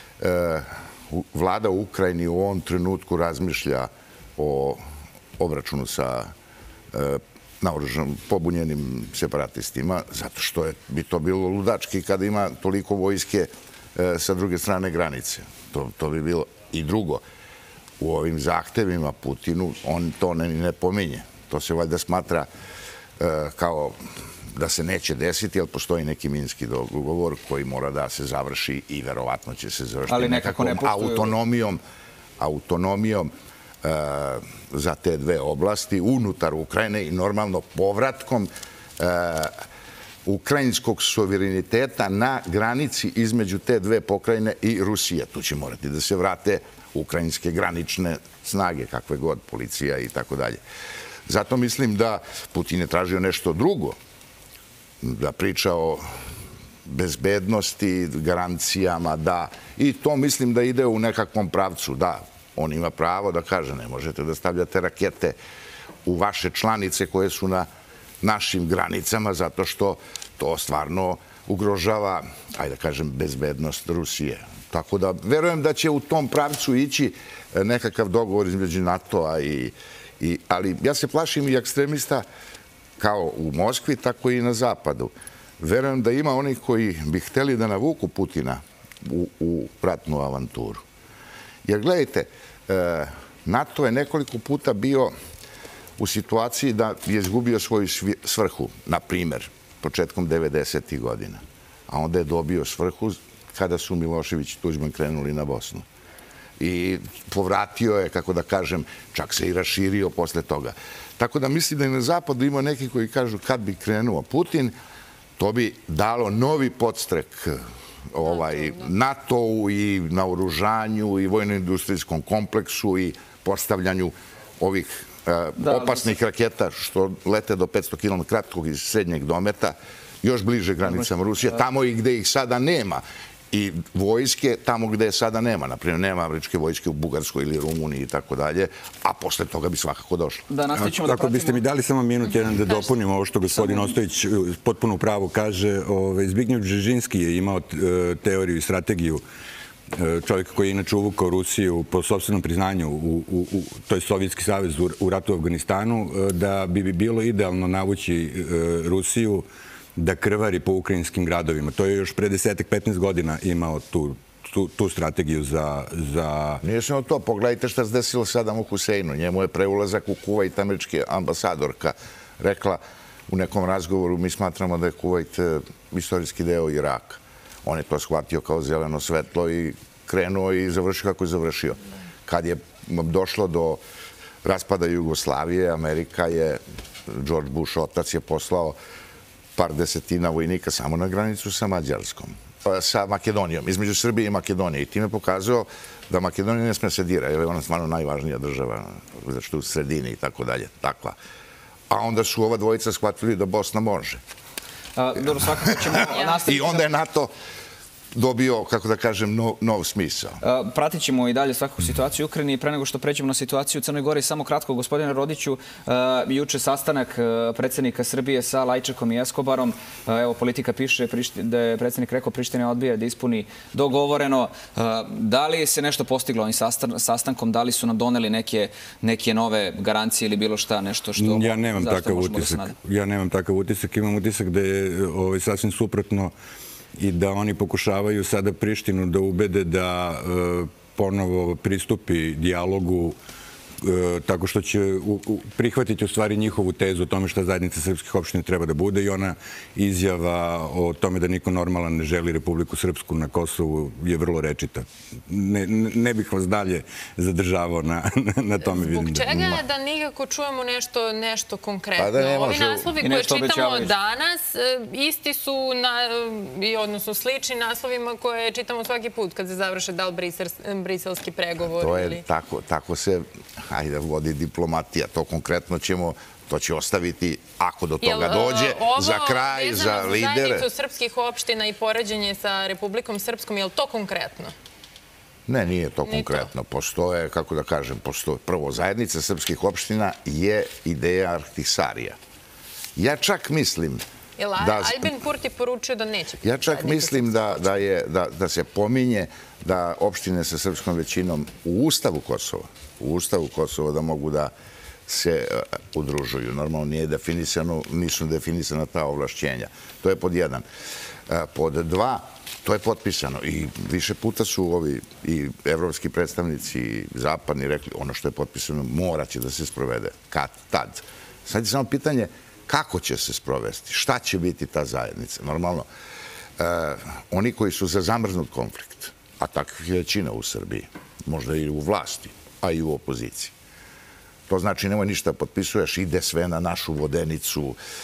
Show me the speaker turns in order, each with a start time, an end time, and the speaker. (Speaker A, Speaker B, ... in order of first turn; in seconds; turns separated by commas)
Speaker A: 0.2-4.8, Speaker A: 5.4-6.3, Speaker A: 6.9-17.2, Speaker A: 18.0-22.5, Speaker A: 23.2-24.0, Speaker A: 24.5-31.8, Speaker B: 30.1-31.3, Speaker A: 32.4-33.3, Speaker A: 33.8-39.5, Speaker A: 40.2-50.6, Speaker A: 51.3-54.0, Speaker A: 55.0-56.0, Speaker A: 56.8-65.4, Speaker A: 66.0-67.7, Speaker A: 68.2-82.2, Speaker A: 83.0-90.8, Speaker A: 91.6-95.1, Speaker A: 96.0-105.8, Speaker A: 106.6-114.7, Speaker A: 115.4-140.4, Speaker C: 118.2-118.8, Speaker B: 125.6-126.0, Speaker B: 140.5-141.6, Speaker D: 140.7-149.2, Speaker D: 149.9-159.4, Speaker D: 159.9-166.6, Speaker A: 166.6-183.8, Speaker A: 184.4-188.8, Speaker A: 189.6-201.2, Speaker A: 201.9-204.2, Speaker B: 204.9-206.9, Speaker A: 205.6-207.3, Speaker A: 208.1-210.4, Speaker B: 210.4-232.7, Speaker D: 231.2-236.3, Speaker D: 237.0-243.2, Speaker D: 243.8-259.6, Speaker C: 258.6-272.2, Speaker A: 262.0-262.9, Speaker B: 263.0-263.9, Speaker A: 271.7-280.7, Speaker C: 278.0-284.5, Speaker A: 285.5-292.2, Speaker C: 286.1-286.5, Speaker A: 292.9-294.0, Speaker C: 294.4-297.7, Speaker A: 294.6-295.1, Speaker A: 296.4-304.5, Speaker A: 305.1-310.6, Speaker A: 311.3-325.9, Speaker A: 326.6-333.5, Speaker A: 334.5-337.8